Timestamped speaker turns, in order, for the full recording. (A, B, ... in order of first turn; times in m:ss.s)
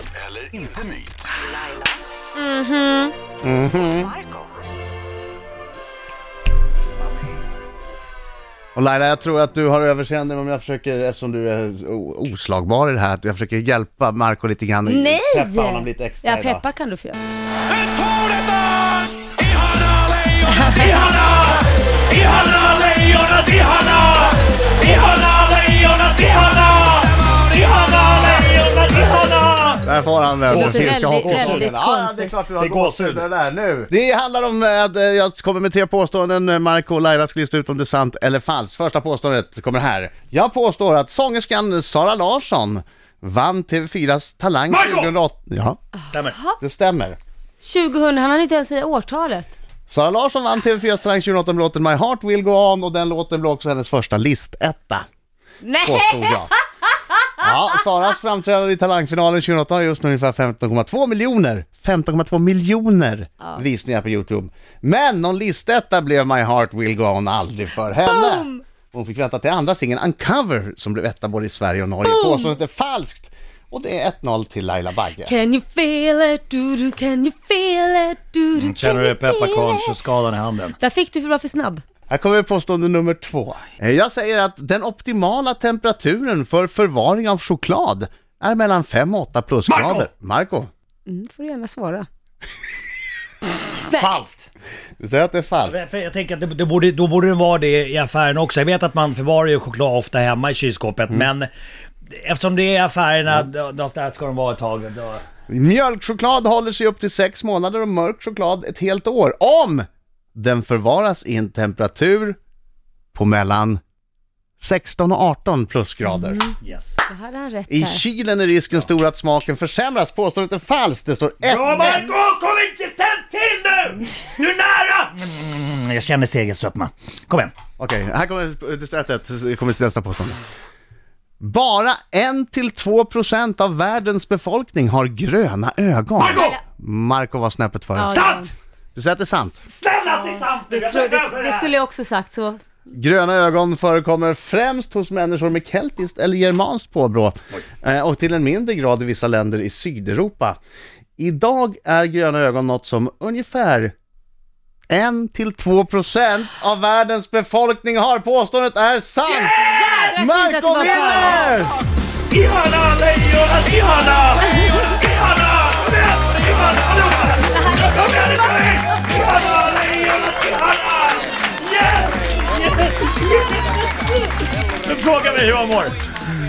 0:01.6-0:03.1 A
0:03.4-0:04.1 B
0:04.0-0:04.4 A
0:08.8-0:16.6 B
0:14.8-0:17.2 A
0:20.5-0:21.0 A
0:20.7-0:29.9 C
0:29.8-0:45.8 B
0:30.5-0:31.7 C
0:30.5-0:32.5 A
0:32.6-0:33.3 C
0:44.7-0:45.1 C
0:46.1-0:46.4 C
0:46.2-0:46.6 A
0:46.6-0:47.2 B
0:47.6-0:49.5 A
0:49.9-0:55.0 B
0:55.6-0:57.2 A
0:55.8-0:56.5 B
0:57.4-1:15.3 B
1:08.0-1:08.6 A
1:12.0-1:12.5 A
1:15.2-1:19.9 A
1:18.6-1:20.8 C
1:20.8-1:21.8 A
1:22.1-1:30.7 B
1:29.7-1:30.1 C
1:31.1-1:32.1 A
1:33.8-1:34.5 C
1:33.8-1:34.2 A
1:35.0-1:35.8 B
1:35.6-1:41.5 C
1:42.1-1:45.2 C
1:45.5-1:52.4 B
1:53.1-1:53.8 B
1:54.6-1:56.4 B
1:56.1-1:56.5 A
1:56.6-1:57.0 C
1:57.1-1:58.0 A
1:57.7-2:02.1 B
2:01.4-2:07.6 C
2:07.8-2:10.4 B
2:11.4-2:19.6 B
2:16.2-2:16.6 C
2:18.0-2:18.5 A
2:18.1-2:18.5 C
2:19.7-2:21.7 C
2:20.1-2:22.6 A
2:22.9-2:30.6 B
2:31.2-2:33.9 B
2:34.9-2:39.6 B
2:39.2-2:40.2 C
2:39.6-2:41.5 A
2:40.2-2:41.7 B
2:40.8-2:41.5 C
2:42.3-2:56.0 C
2:47.6-2:48.0 A